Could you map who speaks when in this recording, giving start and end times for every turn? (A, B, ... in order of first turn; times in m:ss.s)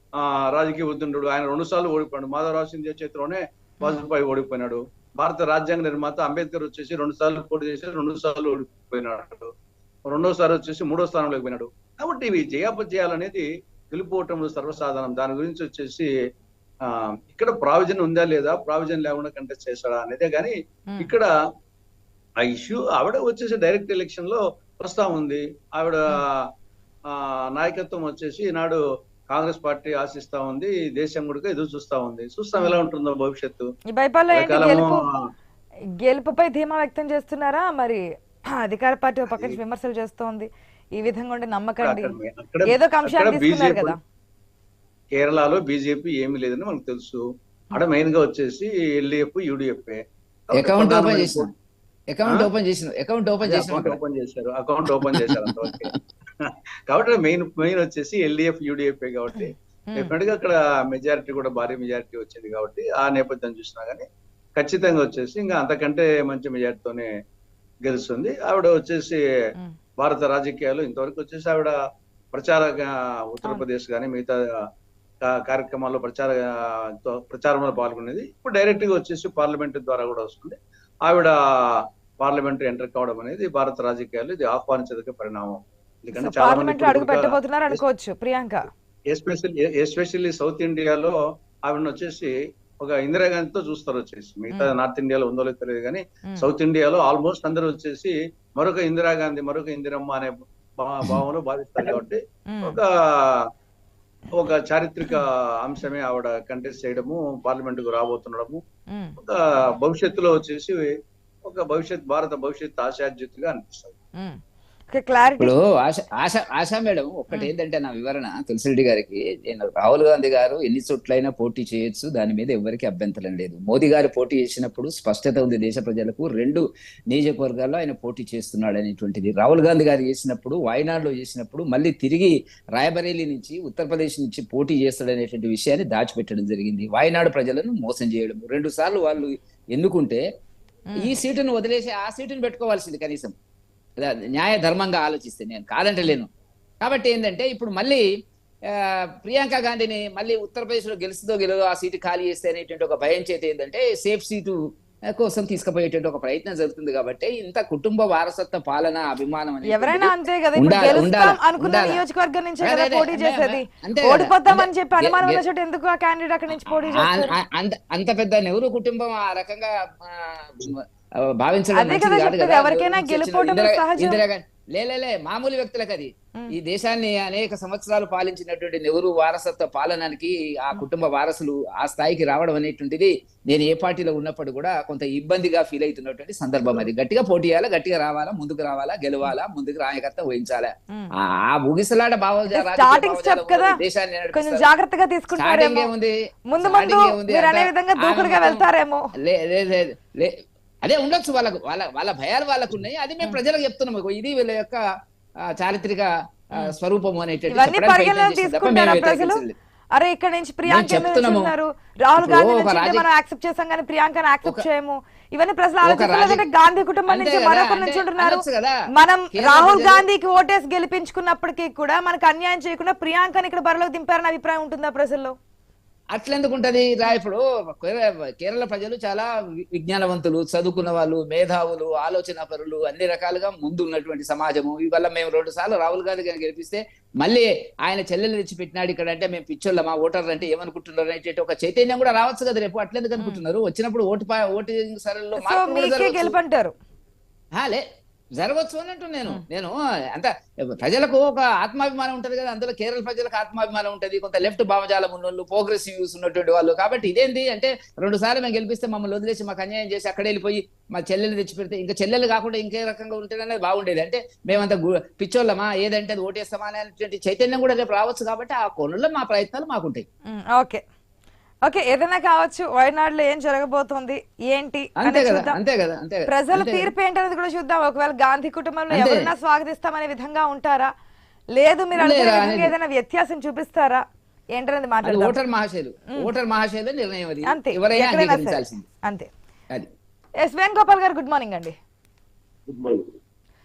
0:00.2-0:09.5 A
0:10.1-0:16.1 A
0:16.9-0:21.3 A
0:22.4-0:26.4 A
0:27.1-0:33.7 A
0:33.9-0:35.0 B
0:34.3-0:35.0 A
0:36.0-0:38.0 B
0:38.6-0:42.1 B
0:39.3-0:39.6 A
0:41.8-0:43.9 A
0:42.7-0:44.0 B
0:45.1-0:51.5 A
0:50.5-0:51.5 C
0:52.1-0:54.0 C
0:53.4-0:55.9 A
0:54.9-0:55.9 C
0:56.4-1:04.0 A
0:59.3-1:00.1 B
1:04.6-1:07.1 A
1:07.8-1:09.2 A
1:10.0-1:11.7 A
1:12.3-1:14.4 A
1:15.2-1:16.4 A
1:17.0-1:27.8 A
1:26.1-1:28.6 B
1:29.1-1:31.1 A
1:31.7-1:43.4 A
1:42.5-1:42.8 B
1:44.4-1:48.6 A
1:48.9-1:49.2 B
1:49.2-1:50.9 A
1:51.4-1:53.9 A
1:54.9-1:55.5 B
1:55.4-2:20.2 C
2:20.9-2:21.2 B
2:21.0-2:23.3 C
2:24.0-2:26.3 C
2:26.8-2:28.0 C
2:28.7-2:34.6 C
2:35.1-2:42.0 C
2:39.7-2:47.3 B
2:42.6-2:45.4 C
2:46.6-2:50.8 C
2:51.4-3:14.7 C
2:51.7-2:54.2 B
3:12.5-3:13.8 B
3:14.3-3:15.9 B
3:15.4-3:18.6 C
3:16.5-3:19.0 B
3:19.2-3:20.3 C
3:20.8-3:24.8 C
3:25.5-3:29.5 C
3:27.5-3:29.4 B
3:30.0-3:45.3 B
3:30.7-3:31.5 C
3:32.2-3:33.0 C
3:35.8-3:36.4 C
3:37.1-3:38.8 C
3:39.3-3:40.0 C
3:46.1-4:06.3 C
4:05.4-4:06.7 B
4:07.6-4:07.8 C
4:08.4-4:30.0 C
4:30.3-4:30.8 B
4:31.6-4:35.6 B
4:35.0-4:36.9 C
4:36.3-4:40.9 B
4:38.9-4:39.2 C
4:41.6-4:44.0 B
4:42.0-4:42.7 C
4:44.6-4:45.4 B
4:45.0-4:48.8 C
4:47.5-4:49.3 B
4:50.4-4:51.7 B